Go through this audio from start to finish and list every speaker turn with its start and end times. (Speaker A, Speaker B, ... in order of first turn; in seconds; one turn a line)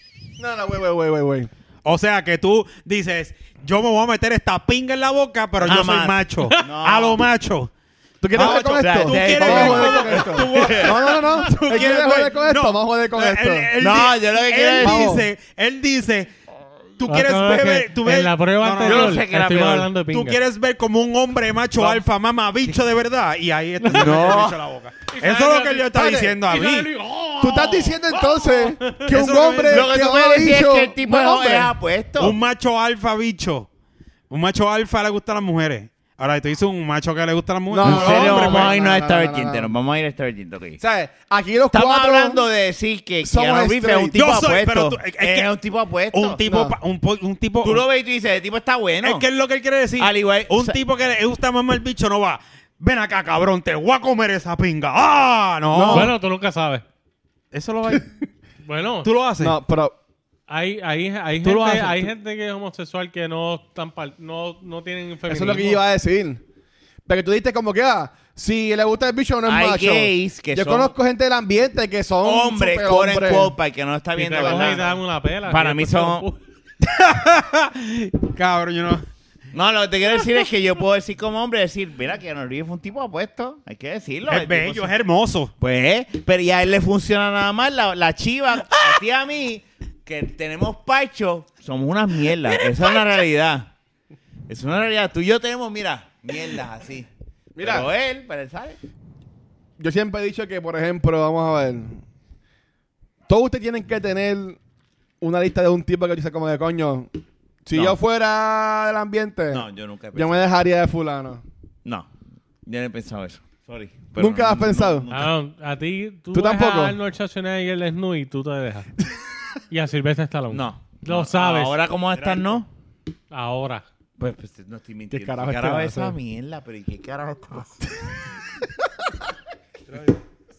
Speaker A: 0.4-1.5
Speaker B: 1.8-7.7
Speaker C: 5.6-7.2
Speaker A: 8.2-13.7
Speaker B: 8.3-16.3
Speaker C: 8.4-11.2
Speaker C: 13.8-15.1
Speaker A: 14.8-15.3
Speaker B: 17.0-19.2
Speaker D: 17.0-20.4
Speaker C: 18.8-19.9
Speaker B: 20.1-26.9
Speaker C: 21.8-22.0
Speaker D: 23.8-24.3
Speaker C: 23.9-24.6
Speaker D: 25.1-29.1
Speaker A: 25.9-26.4
Speaker A: 27.4-31.7
Speaker B: 29.0-29.9
Speaker C: 29.7-32.4
Speaker B: 32.2-33.7
Speaker B: 34.3-38.9
Speaker A: 37.7-39.7
Speaker C: 37.8-40.8
Speaker A: 40.8-42.4
Speaker C: 41.7-46.4
Speaker A: 43.2-44.2
Speaker B: 44.1-45.5
Speaker B: 46.1-47.8
Speaker A: 46.4-46.8
Speaker C: 47.6-49.2
Speaker B: 49.0-56.1
Speaker C: 50.0-50.8
Speaker A: 55.7-56.1
Speaker D: 55.9-56.8
Speaker B: 57.5-58.1
Speaker D: 58.6-59.1
Speaker B: 59.0-59.6
Speaker A: 59.4-60.0
Speaker D: 60.5-65.8
Speaker B: 61.4-62.1
Speaker A: 65.3-66.4
Speaker A: 67.0-73.5
Speaker C: 69.5-70.9
Speaker C: 72.2-76.2
Speaker D: 74.1-76.4
Speaker A: 74.4-74.7
Speaker B: 76.8-79.0
Speaker C: 79.5-84.9
Speaker B: 84.3-85.5
Speaker C: 85.6-93.7
Speaker C: 94.5-97.1
Speaker A: 97.5-97.9
Speaker C: 97.6-98.8
Speaker A: 99.8-102.0
Speaker A: 103.3-104.6
Speaker A: 105.2-107.1
Speaker A: 107.7-111.4
Speaker C: 109.5-110.5
Speaker C: 111.8-112.1
Speaker C: 112.6-115.3
Speaker A: 114.2-115.1
Speaker D: 115.1-118.9
Speaker A: 116.3-117.0
Speaker D: 119.7-121.8
Speaker C: 120.5-122.7
Speaker B: 122.1-122.6
Speaker D: 123.3-123.8
Speaker C: 124.2-127.8
Speaker A: 125.1-126.2
Speaker B: 129.9-130.2